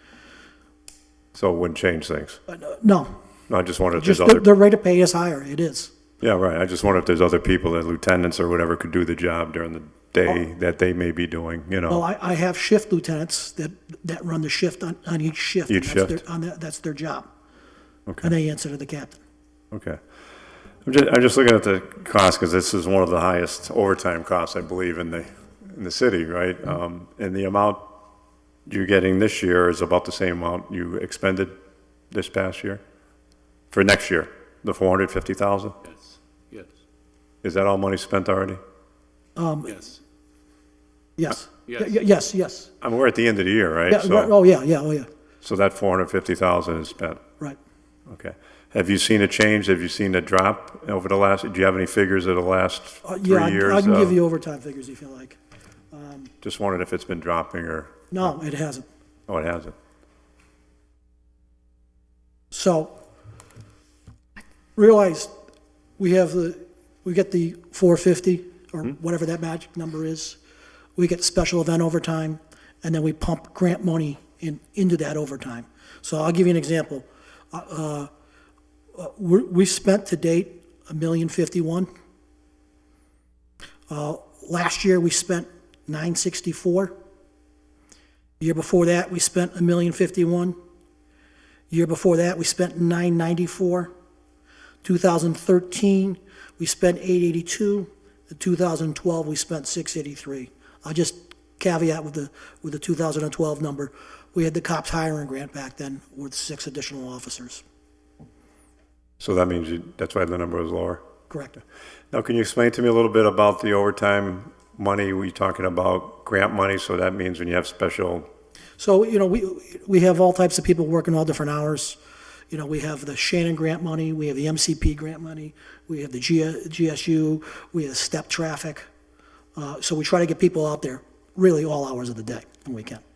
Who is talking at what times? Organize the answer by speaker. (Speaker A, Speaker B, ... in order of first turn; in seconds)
Speaker A: 1.3-2.4, 3.5-4.5, 6.2-12.0, 15.7-16.2, 19.7-20.0, 20.9-27.9, 28.7-31.5, 32.1-32.8, 33.7-35.8, 37.4-38.6, 42.8-44.3, 45.4-47.2, 48.1-54.2, 56.4-58.1, 59.3-59.8, 109.2-111.0, 112.1-118.3
Speaker B: 2.5-3.1, 4.0-5.9, 11.9-17.3, 18.2-19.2, 39.4-39.9, 41.2-42.7, 43.9-45.1, 53.0-55.4, 55.9-56.3, 58.1-58.9, 62.5-63.0, 64.8-65.3, 66.0-70.4, 71.0-78.1, 79.0-81.9, 83.9-86.9, 88.4-90.6, 91.7-93.9, 94.8-107.6, 111.3-111.6, 118.8-122.0, 122.5-128.9, 129.6-133.0